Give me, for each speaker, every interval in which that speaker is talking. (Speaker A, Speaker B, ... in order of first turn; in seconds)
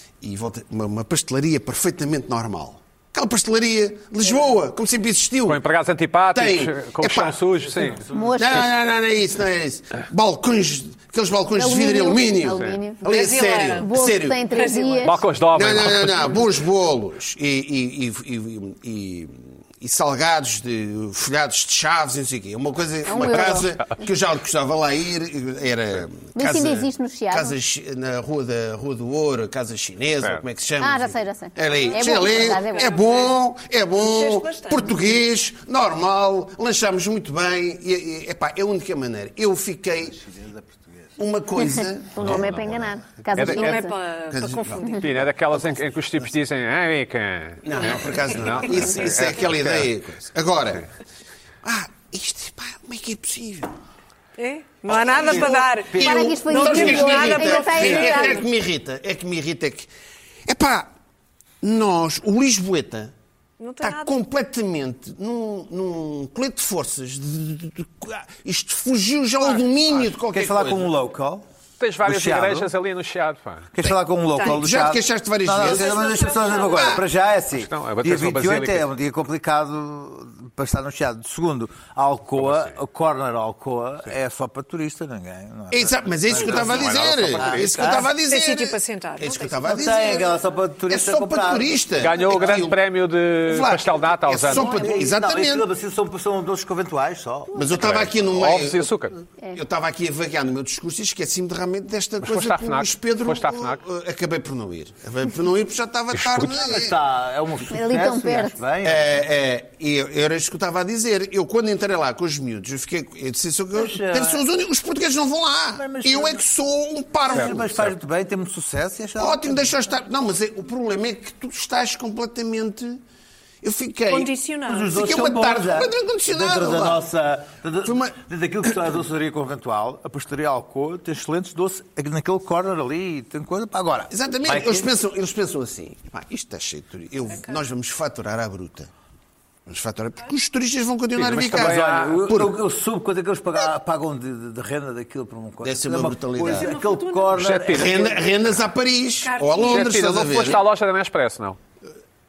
Speaker A: 0.2-5.6, 6.3-7.4, 8.3-14.5, 15.5-40.2, 41.2-42.8, 44.3-46.3, 47.6-50.9, 51.6-53.7, 54.9-59.9, 60.5-60.9, 61.6-63.1, 63.8-70.9, 73.8-77.0, 85.7-90.3, 90.9-92.8, 93.4-95.7, 97.5-99.0, 99.5-107.0, 108.8-118.0, 119.2-123.0, 123.6-124.3, 124.9-127.0, 127.8-128.2, 134.1-138.9, 139.7-142.6, 145.6-146.7, 147.7-150.6
Speaker B: 5.5-8.0, 12.5-12.8, 15.0-16.4, 42.2-42.7, 43.3-43.8, 44.9-49.9, 71.8-73.7, 77.6-78.9, 82.4-82.7, 86.3-88.0, 92.0-94.8, 97.8-99.2, 102.2-103.8, 106.1-106.7, 141.2-142.2, 147.3-148.0, 149.7-151.6
Speaker C: 8.0-8.3, 40.3-40.9, 55.1-56.4, 70.3-71.4, 72.0-72.7, 73.7-88.1, 89.7-91.7, 94.5-97.7, 106.5-109.2, 113.8-114.4, 115.8-116.4, 117.3-119.8, 124.7-134.9, 141.4-148.1
Speaker D: 8.1-8.7, 11.6-13.1, 13.7-15.2, 23.1-23.8, 26.4-27.6, 30.8-32.9, 41.7-43.9, 56.0-58.4, 107.7-108.6
Speaker E: 13.0-13.9, 14.5-15.2, 31.8-33.4, 34.0-35.0, 43.4-45.1, 54.4-58.5, 63.6-64.1, 74.3-74.6, 75.6-77.0, 88.2-89.7, 124.1-125.0, 146.4-148.0, 149.2-149.9